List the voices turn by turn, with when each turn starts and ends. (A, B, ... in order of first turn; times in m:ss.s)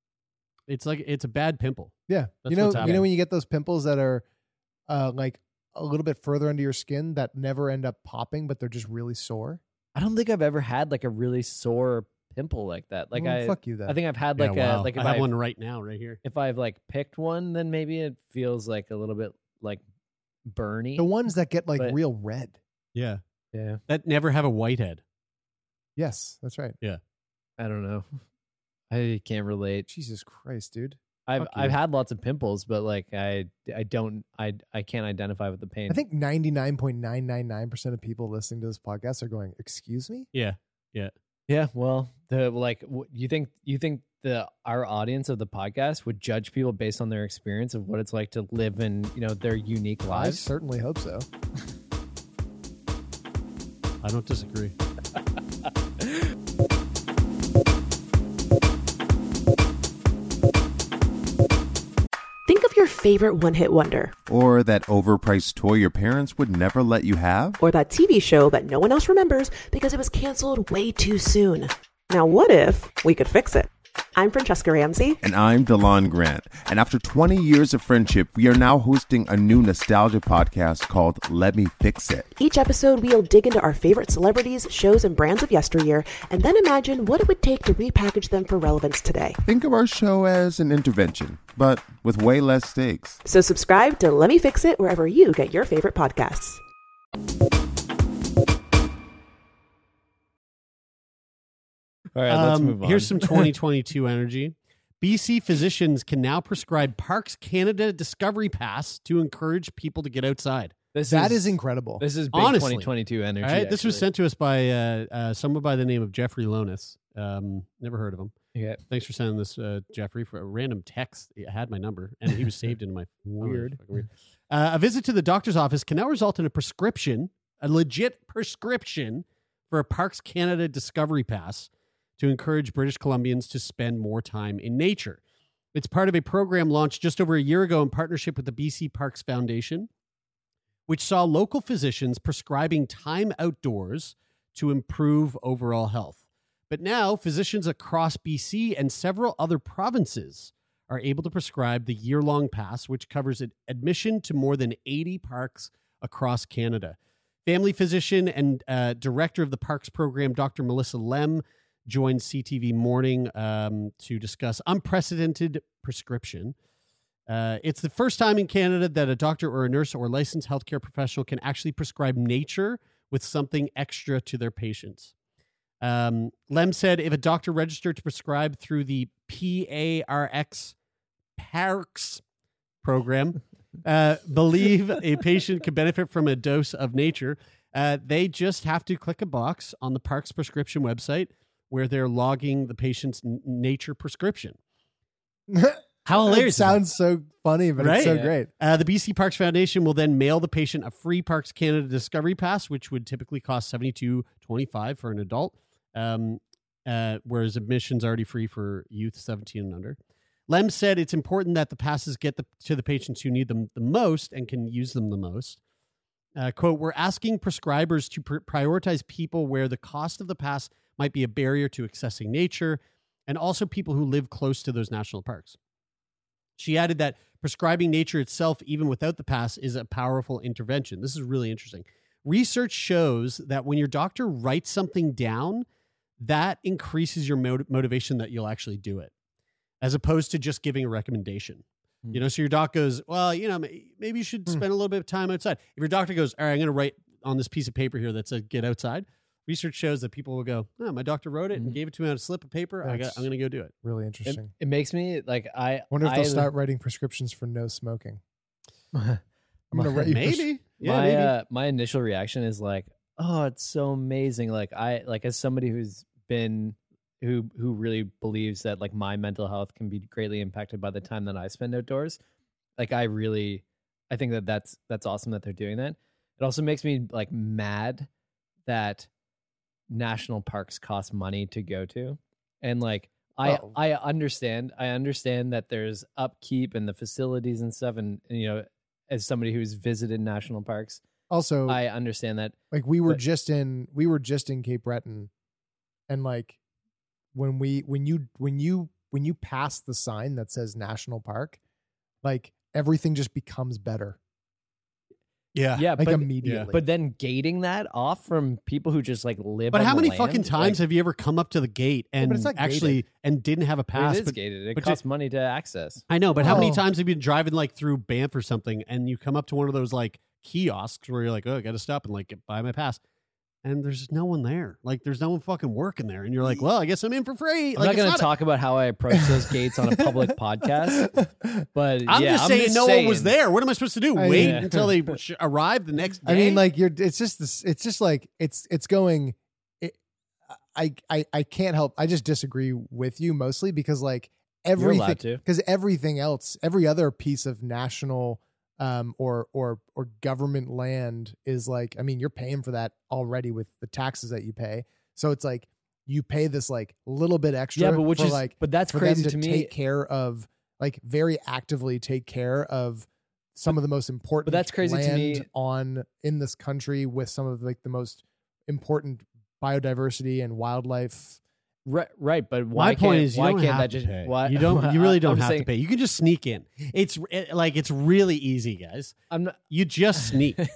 0:00.7-0:03.1 A
0:02.1-0:04.2 B
0:02.8-0:03.0 C
0:04.9-0:09.6 B
0:10.0-0:15.3 C
0:13.1-0:14.0 B
0:14.4-0:16.2 A
0:16.2-0:19.8 C
0:20.5-0:21.1 C
0:21.0-0:22.6 B
0:23.0-0:23.2 A
0:23.5-0:23.8 C
0:23.9-0:25.0 A
0:26.0-0:26.8 B
0:27.6-0:28.2 C
0:28.9-0:29.9 C
0:29.9-0:31.7 B
0:31.3-0:36.0 C
0:35.9-0:40.3 B
0:40.3-0:41.1 A
0:41.5-0:50.5 C
0:50.1-0:51.3 B
0:54.0-0:54.8 A
1:02.5-1:04.2 D
1:04.3-1:07.6 E
1:07.6-1:15.2 D
1:15.2-1:22.3 E
1:22.4-1:29.4 D
1:29.4-1:33.2 E
1:33.2-1:36.6 D
1:42.2-1:43.5 C
1:42.3-1:50.8 A
1:50.9-1:54.0 C
1:51.1-1:52.0 B
1:52.3-1:58.3 A
1:58.6-1:58.8 C
1:58.9-2:15.2 A
2:03.4-2:03.8 C
2:15.7-2:19.9 A
2:20.9-2:46.6 A
2:47.3-2:55.1 A
2:55.8-3:00.8 A
3:01.4-3:02.2 A
3:02.8-3:14.6 A
3:15.5-3:18.5 B
3:16.0-3:16.8 A
3:17.8-3:35.6 A
3:18.0-3:18.3 C
3:36.4-3:45.6 A
3:46.6-3:55.6 A
3:56.2-3:59.1 A
3:59.8-4:13.7 A
4:12.8-4:13.3 B
4:13.8-4:14.5 B
4:14.3-4:16.5 C
4:15.9-4:18.2 B
4:18.9-4:19.2 C
4:19.7-4:20.5 B
4:19.8-4:20.0 C
4:20.0-4:21.3 A
4:20.8-4:32.2 C
4:32.8-4:38.1 C
4:38.7-4:39.1 C
4:39.9-4:51.0 C
4:43.4-4:43.7 B
4:51.3-4:51.8 B
4:51.7-4:52.6 C
4:52.7-4:55.3 B
4:56.1-4:56.6 B
4:57.3-5:01.6 B
5:02.2-5:04.2 B
5:05.6-5:05.9 A
5:05.8-5:10.8 C
5:06.0-5:06.8 B
5:06.4-5:06.7 A
5:09.7-5:15.0 A
5:12.2-5:13.0 B
5:14.0-5:16.7 C
5:16.1-5:23.0 A
5:16.4-5:16.8 B
5:23.6-5:28.3 A
5:27.8-5:31.1 C
5:29.2-5:31.7 B
5:31.7-5:33.3 C
5:32.1-5:36.6 A
5:34.2-5:34.9 B
5:34.4-5:34.9 C
5:36.2-5:40.0 B
5:40.6-6:11.4 B
5:44.8-5:45.4 C
5:57.8-5:59.7 C
6:04.5-6:05.5 C
6:11.9-6:15.7 C
6:12.8-6:19.2 A
6:19.3-6:19.6 C
6:19.7-6:20.6 A